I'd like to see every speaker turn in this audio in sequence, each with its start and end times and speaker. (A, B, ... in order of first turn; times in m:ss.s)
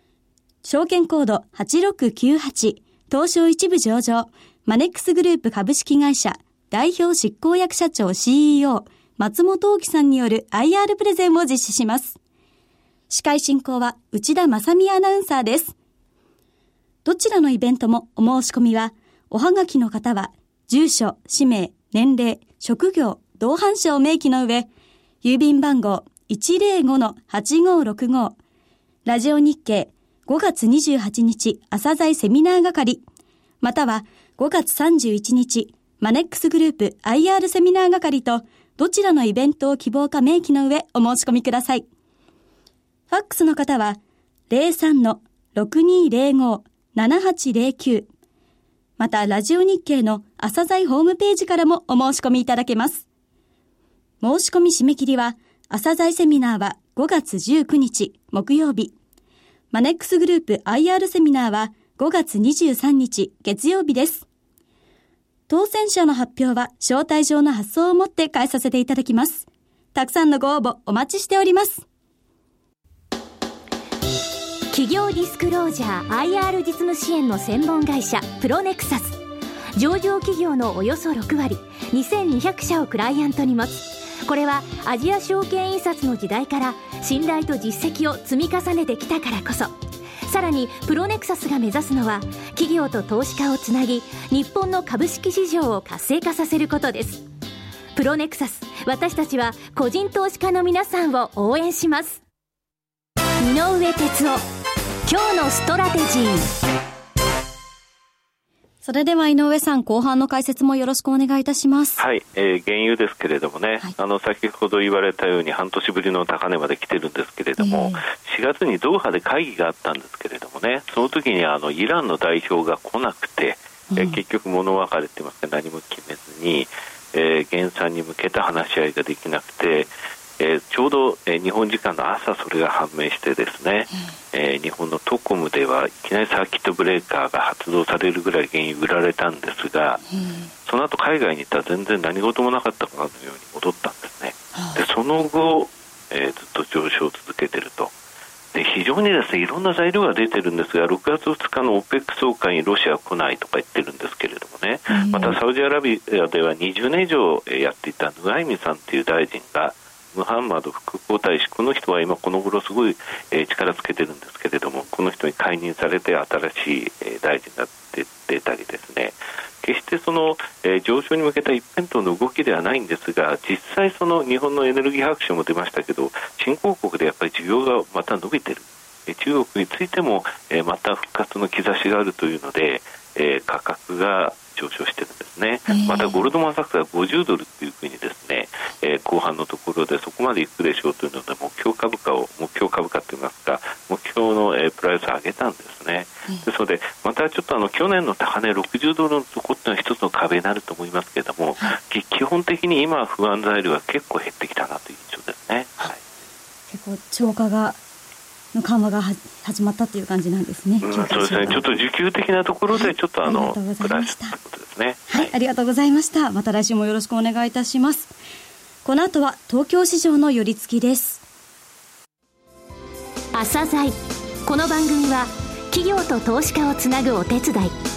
0:00.6-0:12.2 A
0:13.1-0:15.7 A
0:17.0-0:24.7 A
0:25.2-0:28.4 A
0:29.0-0:33.0 A
0:33.6-0:41.8 A
0:43.1-0:48.1 A
0:49.0-0:53.0 A
0:54.2-0:58.9 A
0:59.7-1:04.2 A
1:05.5-1:11.8 A
1:14.7-1:19.2 B
1:19.8-1:29.7 B
1:30.2-1:37.2 B
1:37.9-1:42.2 B
1:43.4-1:44.4 B
1:45.0-1:46.5 B
1:48.8-1:52.0 A
1:52.0-2:20.0 C
1:57.6-1:58.0 A
2:03.9-2:04.2 A
2:20.1-2:20.4 A
2:20.6-2:27.9 C
2:24.6-2:24.8 A
2:28.5-3:26.0 C
2:34.9-2:35.4 A
3:05.7-3:06.2 A
3:26.7-3:27.8 A
3:28.5-3:31.7 A
3:30.8-3:35.3 C
3:32.7-3:34.4 A
3:35.1-3:38.1 A
3:38.8-3:41.2 A
3:43.3-3:43.9 B
3:44.4-3:47.7 B